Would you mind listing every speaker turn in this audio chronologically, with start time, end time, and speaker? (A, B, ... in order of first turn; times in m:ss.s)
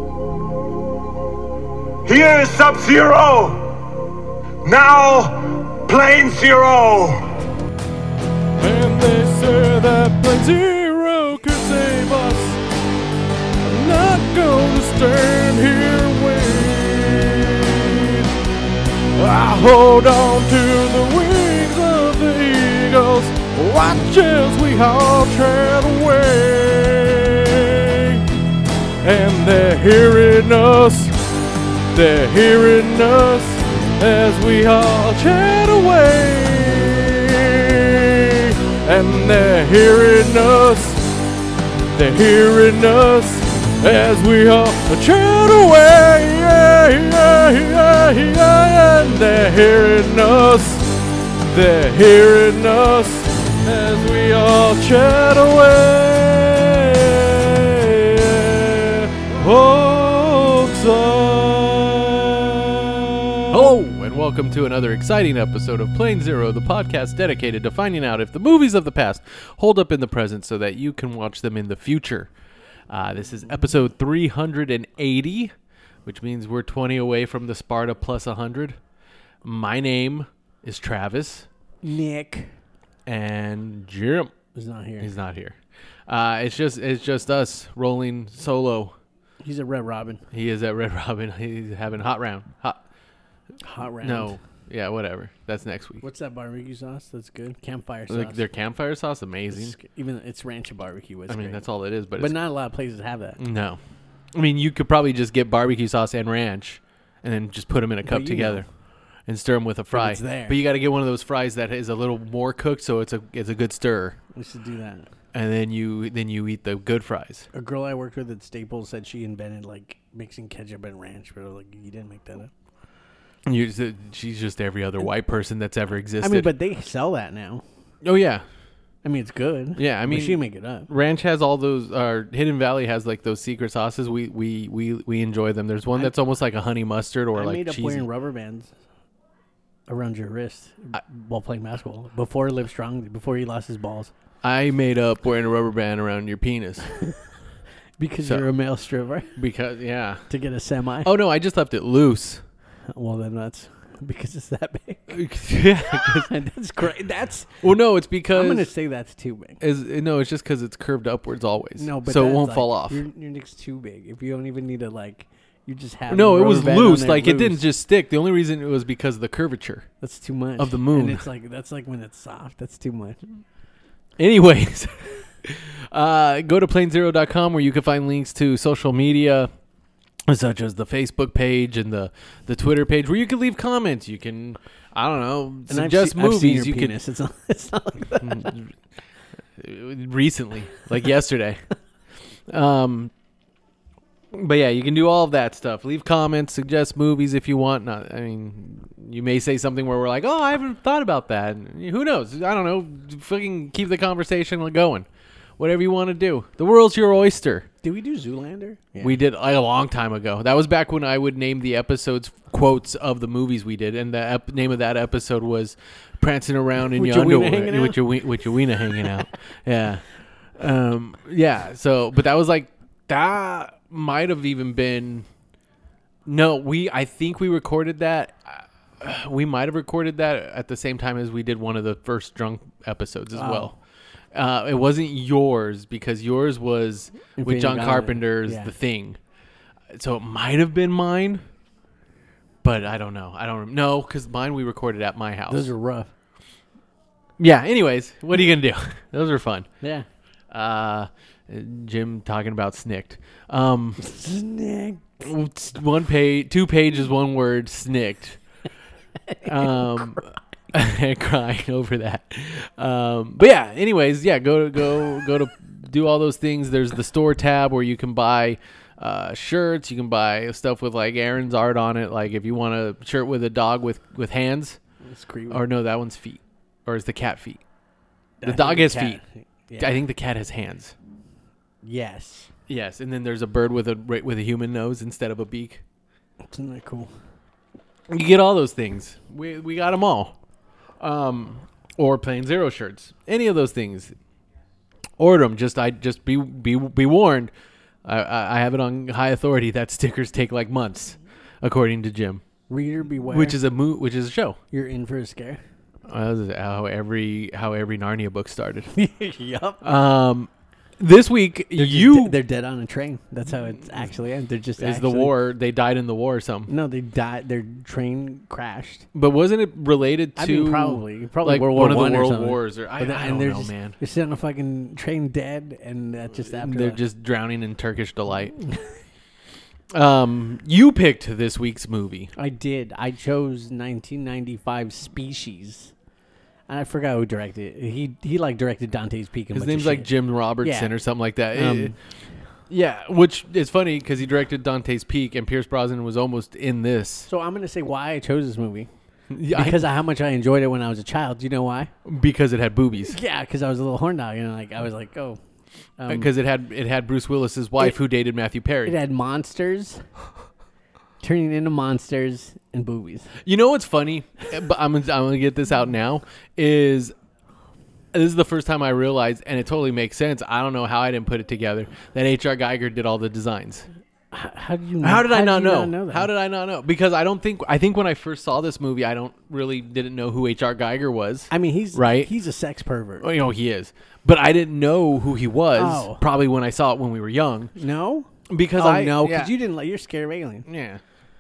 0:02.1-0:03.9 A
0:04.6-0:07.3 A
0:08.6-0:12.6 B
0:13.6-0:18.3 B
0:19.1-0:28.2 B
0:29.0-0:31.2 B
0:31.9-0:41.2 B
0:41.9-1:03.1 B
1:03.5-1:12.3 C
1:12.9-1:15.5 C
1:16.1-1:18.8 C
1:19.4-1:21.5 C
1:21.8-1:22.5 D
1:23.1-1:24.3 C
1:24.6-1:25.1 D
1:25.0-1:25.6 C
1:26.1-1:29.0 C
1:29.4-1:30.2 D
1:30.3-1:32.8 C
1:33.6-1:34.4 D
1:34.0-1:36.0 C
1:36.0-1:38.4 D
1:38.1-1:39.8 C
1:39.5-1:41.6 D
1:41.3-1:42.3 C
1:42.2-1:43.4 D
1:43.4-1:43.8 C
1:44.3-1:48.7 C
1:48.0-1:48.6 D
1:49.3-1:54.2 C
1:49.9-1:50.6 D
1:54.3-1:55.1 D
1:55.3-1:57.5 C
1:57.5-2:02.5 D
2:03.5-2:06.5 C
2:06.2-2:07.6 D
2:08.0-2:08.4 C
2:09.0-2:10.9 D
2:09.8-2:18.1 C
2:17.3-2:18.7 D
2:19.9-2:24.1 D
2:24.4-2:26.9 C
2:28.0-2:29.3 D
2:29.3-2:30.2 C
2:30.3-2:31.1 D
2:31.0-2:32.4 C
2:32.9-2:35.2 D
2:35.1-2:36.3 C
2:35.9-2:37.7 D
2:37.6-2:38.7 C
2:38.3-2:39.6 D
2:39.6-2:43.0 C
2:41.8-2:47.6 D
2:46.1-2:49.9 C
2:50.0-2:53.2 D
2:50.6-2:51.2 C
2:54.2-2:59.5 C
3:00.3-3:07.0 C
3:05.7-3:08.6 D
3:08.2-3:08.7 C
3:09.6-3:11.6 C
3:12.5-3:13.1 C
3:14.3-3:25.1 C
3:25.6-3:27.7 C
3:27.8-3:29.2 D
3:29.0-3:40.0 C
3:36.9-3:39.2 D
3:40.6-3:45.2 C
3:46.2-3:53.8 C
3:53.3-3:53.7 D
3:54.3-3:59.2 C
3:57.4-3:58.7 D
3:59.9-4:01.4 C
4:02.6-4:05.7 C
4:05.5-4:06.1 D
4:07.4-4:09.7 C
4:09.8-4:10.1 D
4:10.5-4:14.0 C
4:14.0-4:15.2 D
4:15.2-4:18.4 C
4:19.3-4:19.8 D
4:19.4-4:34.8 C
4:35.0-4:35.6 D
4:35.5-4:37.6 C
4:38.4-4:39.9 D
4:38.4-4:39.2 C
4:39.8-4:40.9 C
4:41.8-4:42.5 D
4:42.7-4:45.8 C
4:46.5-4:47.1 D
4:48.1-4:50.3 C
4:51.0-4:54.1 C
4:55.2-4:57.5 C
4:58.0-5:02.4 C
5:02.7-5:03.6 D
5:03.3-5:04.6 C
5:04.7-5:05.6 D
5:06.1-5:08.9 C
5:08.9-5:09.8 D
5:09.8-5:12.4 C
5:11.8-5:15.3 D
5:14.8-5:16.7 C
5:16.7-5:19.0 D
5:19.1-5:24.0 C
5:20.4-5:27.0 D
5:26.4-5:28.6 C
5:28.6-5:28.9 D
5:29.9-5:32.3 C
5:32.4-5:35.9 D
5:36.7-5:40.9 D
5:39.5-5:41.9 C
5:41.5-5:42.0 D
5:42.7-5:47.3 C
5:47.3-5:48.9 D
5:49.3-5:49.8 C
5:49.5-5:51.9 D
5:52.0-5:53.2 C
5:53.1-5:55.4 D
5:56.0-5:56.3 D
5:56.1-5:59.0 C
5:58.8-6:00.0 D
6:01.2-6:03.3 D
6:03.4-6:07.1 C
6:08.1-6:13.9 C
6:14.3-6:16.3 D
6:15.0-6:22.3 C
6:21.5-6:23.3 D
6:23.2-6:27.7 C
6:25.8-6:26.2 D
6:27.8-6:30.6 D
6:28.5-6:29.5 C
6:30.7-6:31.0 C